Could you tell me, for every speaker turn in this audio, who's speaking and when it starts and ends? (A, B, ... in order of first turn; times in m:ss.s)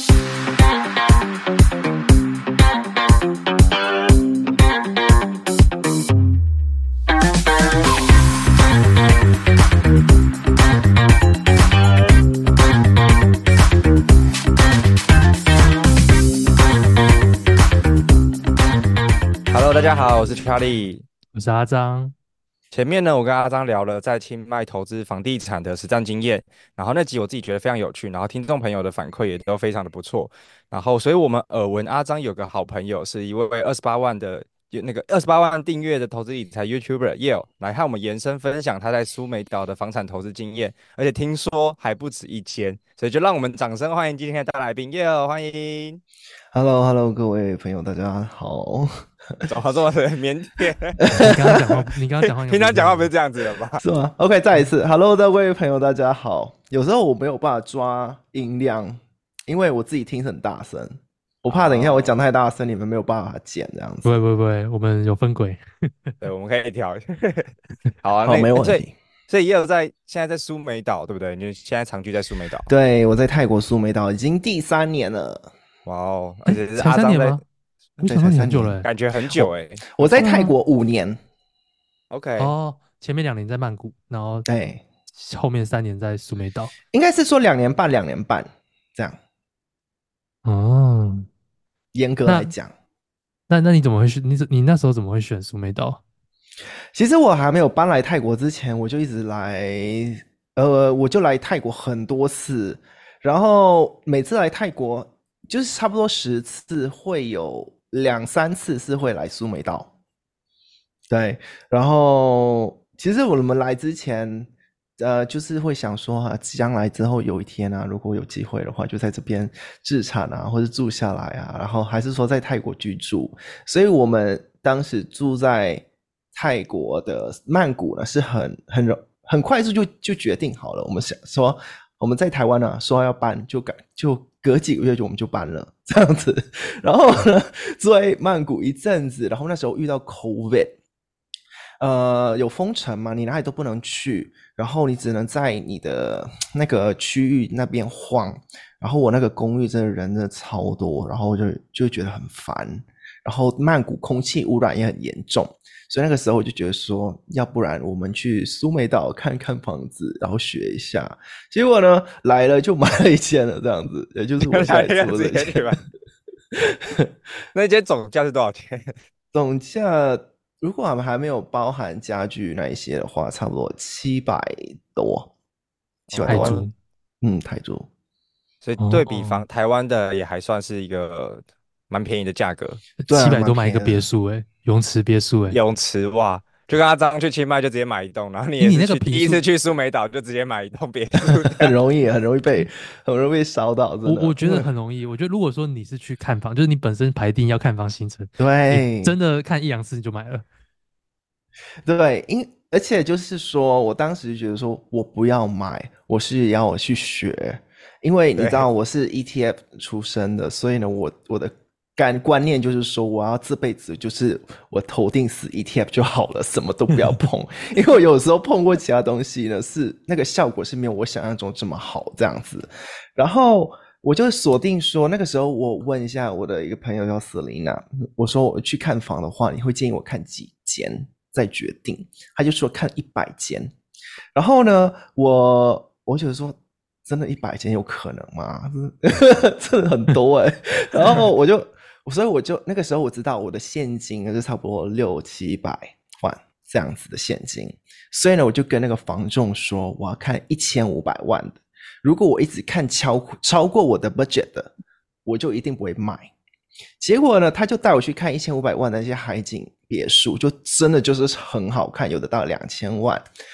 0:19.5-0:21.0 A
0:19.7-0:20.3 B
0:21.3-0:22.1 B
0:22.7-0:46.0 A
0:46.5-0:49.5 C
0:49.4-0:51.6 A
0:51.0-0:51.8 C
0:51.1-0:53.1 B
0:52.2-0:53.8 A
0:53.8-1:04.1 C
1:01.5-1:02.1 A
1:04.0-1:06.1 B
1:06.2-1:12.7 A
1:08.2-1:08.9 C
1:12.7-1:15.5 C
1:15.8-1:17.4 A
1:16.5-1:17.4 B
1:18.0-1:18.9 B
1:18.0-1:21.2 C
1:18.8-1:20.0 A
1:20.2-1:20.5 B
1:22.1-1:22.5 A
1:22.4-1:24.5 B
1:24.5-1:24.8 C
1:25.1-1:26.7 B
1:26.9-1:29.2 C
1:30.4-1:31.3 B
1:31.9-1:32.7 C
1:32.2-1:32.5 B
1:33.5-1:36.0 B
1:36.9-1:49.9 C
1:51.1-2:20.7 C
2:21.8-2:45.8 C
2:44.4-2:45.8 A
2:46.5-2:47.1 C
2:47.5-2:48.9 A
2:49.3-2:55.3 C
2:56.1-2:56.6 A
2:56.1-2:56.6 C
2:56.2-2:56.7 B
2:57.2-2:57.9 C
2:58.6-3:02.8 A
2:58.8-2:59.4 B
3:03.0-3:05.6 B
3:03.1-3:04.1 C
3:05.5-3:11.7 A
3:08.6-3:09.4 B
3:11.3-3:14.7 C
3:14.0-3:20.4 B
3:18.4-3:19.2 C
3:21.8-3:53.7 C
3:28.4-3:28.7 A
3:54.3-4:14.7 C
4:15.2-4:16.3 C
4:17.0-4:23.2 C